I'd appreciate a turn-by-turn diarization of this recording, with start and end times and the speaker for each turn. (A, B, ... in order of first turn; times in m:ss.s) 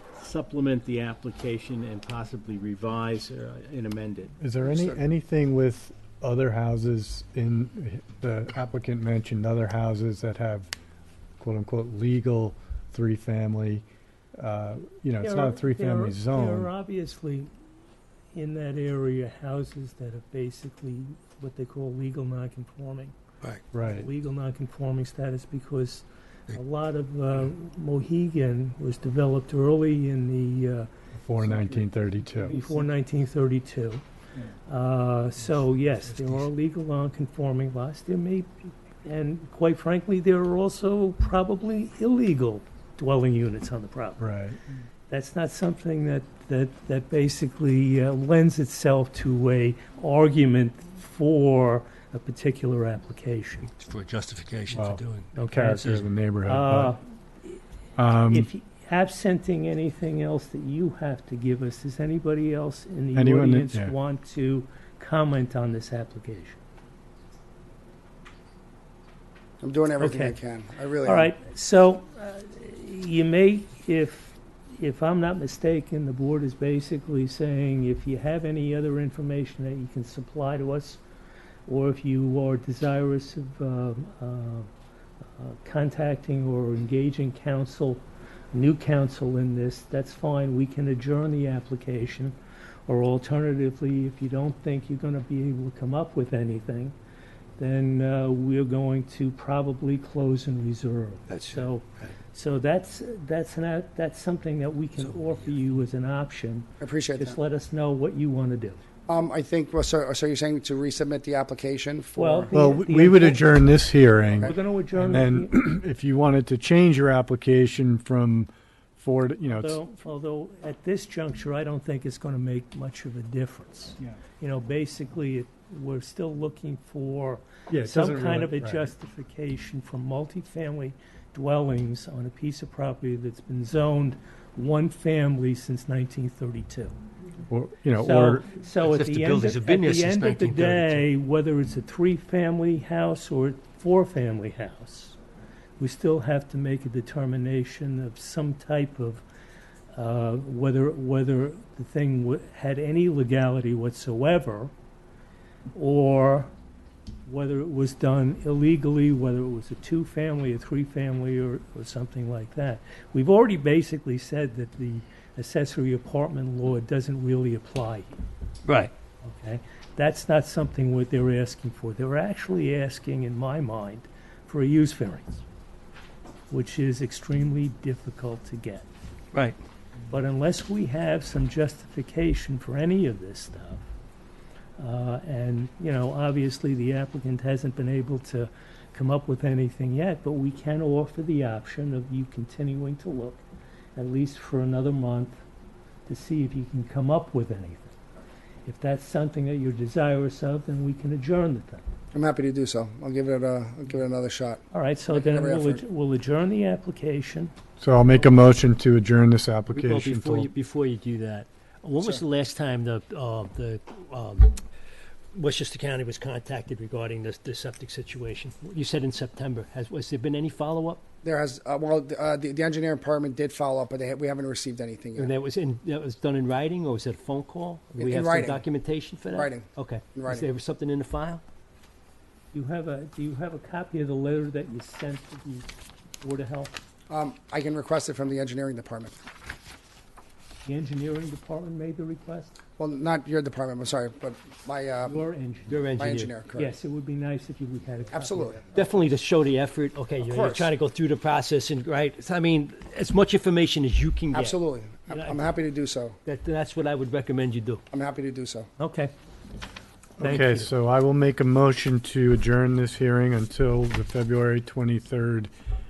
0:00.2-0:04.3 A
0:04.4-0:10.7 B
0:04.6-0:05.0 C
0:11.4-0:13.8 B
0:14.4-0:16.7 B
0:15.2-0:17.5 D
0:18.3-0:23.2 D
0:23.7-0:24.1 B
0:23.8-0:30.9 D
0:31.2-0:32.6 B
0:32.4-0:34.0 D
0:34.7-0:38.5 D
0:39.0-0:44.2 D
0:44.2-0:44.6 B
0:45.1-0:53.7 D
0:53.7-0:56.1 E
0:54.7-0:57.0 B
0:55.3-0:55.9 D
0:56.4-0:57.0 D
0:58.0-0:58.5 B
0:58.3-1:06.6 D
1:03.1-1:03.9 B
1:09.6-1:11.3 C
1:10.0-1:10.4 D
1:11.0-1:21.0 D
1:21.7-1:24.7 D
1:25.4-1:32.3 D
1:32.9-1:37.0 D
1:37.6-1:48.8 D
1:41.3-1:41.7 E
1:45.0-1:45.3 E
1:46.8-1:47.4 C
1:49.1-1:52.6 C
1:52.2-1:53.4 D
1:52.5-1:59.8 B
1:54.4-1:55.6 D
1:59.6-2:17.0 D
2:07.7-2:08.9 B
2:17.5-2:18.5 B
2:18.0-2:25.2 D
2:18.8-2:21.0 E
2:25.8-2:29.2 D
2:29.9-2:34.7 D
2:35.7-2:36.5 D
2:37.2-2:48.1 D
2:48.7-2:48.9 E
2:49.2-2:55.4 D
2:56.5-2:58.8 D
3:00.1-3:03.8 D
3:04.8-3:13.4 D
3:14.0-3:15.4 D
3:16.0-3:17.9 D
3:18.6-3:21.8 D
3:22.1-3:25.8 C
3:24.7-3:27.5 D
3:27.8-3:30.5 B
3:29.7-3:34.6 E
3:35.3-3:41.0 E
3:41.2-3:45.3 C
3:45.2-3:51.4 E
3:48.0-3:48.6 C
3:49.3-3:50.5 C
3:52.5-3:56.8 D
3:57.1-3:59.2 C
4:00.6-4:02.6 D
4:02.8-4:05.2 C
4:05.0-4:05.8 D
4:05.7-4:06.3 E
4:06.0-4:06.7 C
4:06.5-4:08.7 D
4:08.1-4:08.6 C
4:08.7-4:15.6 E
4:10.2-4:10.7 C
4:14.3-4:16.2 C
4:16.2-4:17.8 E
4:17.9-4:18.7 C
4:18.8-4:19.1 D
4:20.2-4:25.5 B
4:20.2-4:20.7 D